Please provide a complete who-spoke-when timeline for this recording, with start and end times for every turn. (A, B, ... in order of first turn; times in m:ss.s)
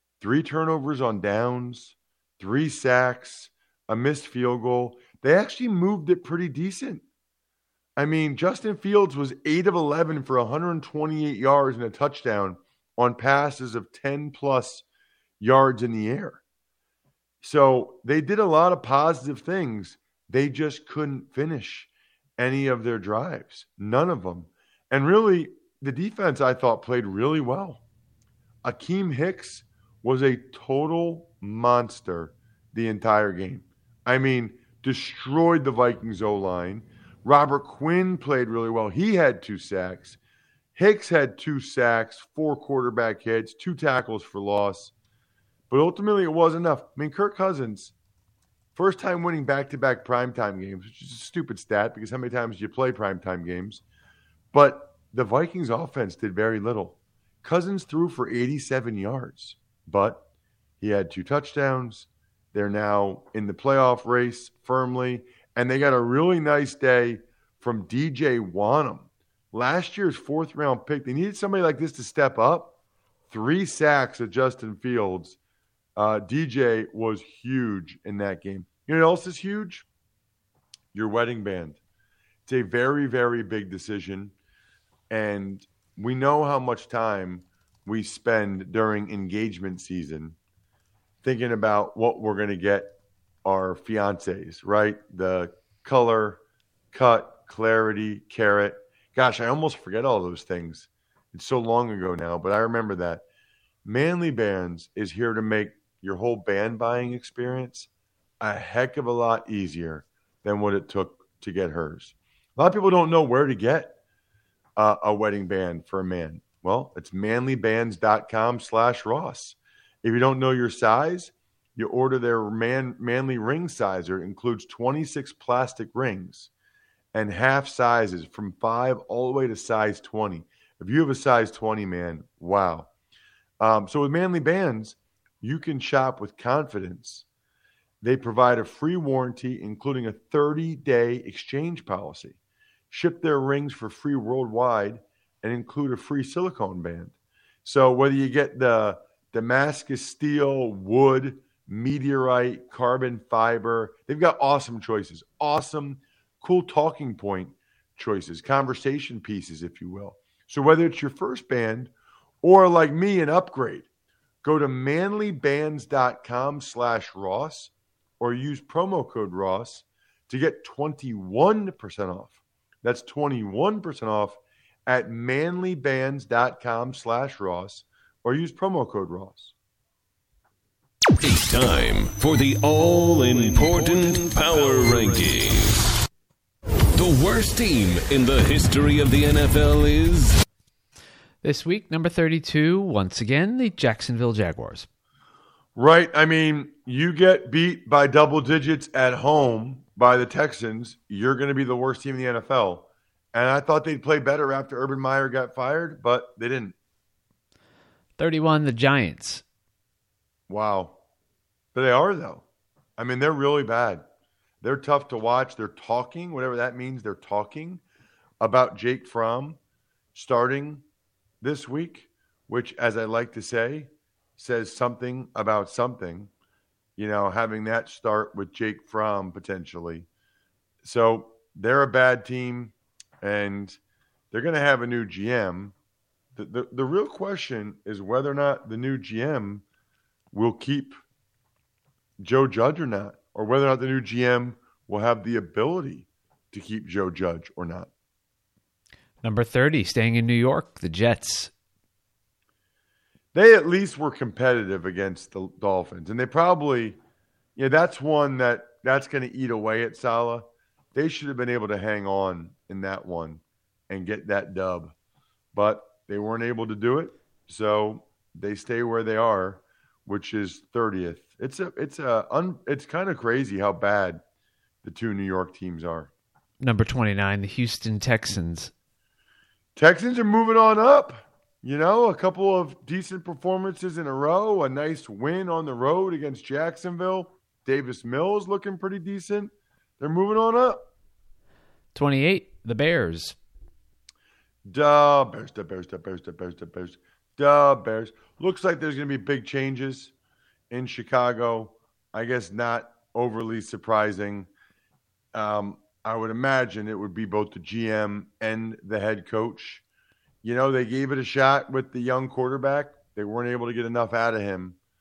0:00.2-0:07.0 A
0:08.0-0:14.8 A
0:15.4-0:16.4 A
0:17.4-0:27.8 A
0:28.6-0:40.2 A
0:40.7-0:44.9 A
0:45.7-0:47.9 A
0:48.7-0:53.8 A
0:54.5-1:00.2 A
1:00.8-1:12.7 A
1:13.3-1:15.4 A
1:16.0-1:19.8 A
1:20.9-1:21.8 A
1:22.4-1:24.3 A
1:25.1-1:30.4 A
1:31.2-1:36.4 A
1:36.9-1:43.2 A
1:43.8-1:47.9 A
1:48.4-1:54.0 A
1:54.8-2:06.5 A
2:07.1-2:12.9 A
2:13.6-2:17.2 A
2:18.0-2:22.4 A
2:22.9-2:27.1 A
2:27.6-2:41.9 A
2:42.4-2:43.8 A
2:44.4-2:59.5 A
3:01.2-3:05.8 B
3:06.9-3:10.4 B
3:11.4-3:14.9 C
3:15.8-3:26.7 A
3:28.2-3:29.4 C
3:30.5-3:31.0 A
3:31.7-3:32.4 A
3:33.0-3:34.0 A
3:34.6-3:37.8 A
3:38.4-3:39.6 A
3:40.1-3:40.8 A
3:41.4-3:46.3 A
3:47.0-3:50.1 A
3:50.8-3:53.8 A
3:54.3-3:55.7 A
3:56.4-3:59.6 A
4:00.3-4:01.0 A
4:02.2-4:07.9 A
4:09.2-4:11.5 C
4:13.3-4:17.0 A
4:17.6-4:24.9 A
4:25.5-4:34.2 A
4:34.8-4:36.1 A
4:36.6-4:38.7 C
4:39.8-4:50.8 A
4:51.9-4:53.4 C
4:54.7-5:00.1 A
5:00.7-5:04.5 A
5:05.3-5:09.8 A
5:10.4-5:14.8 A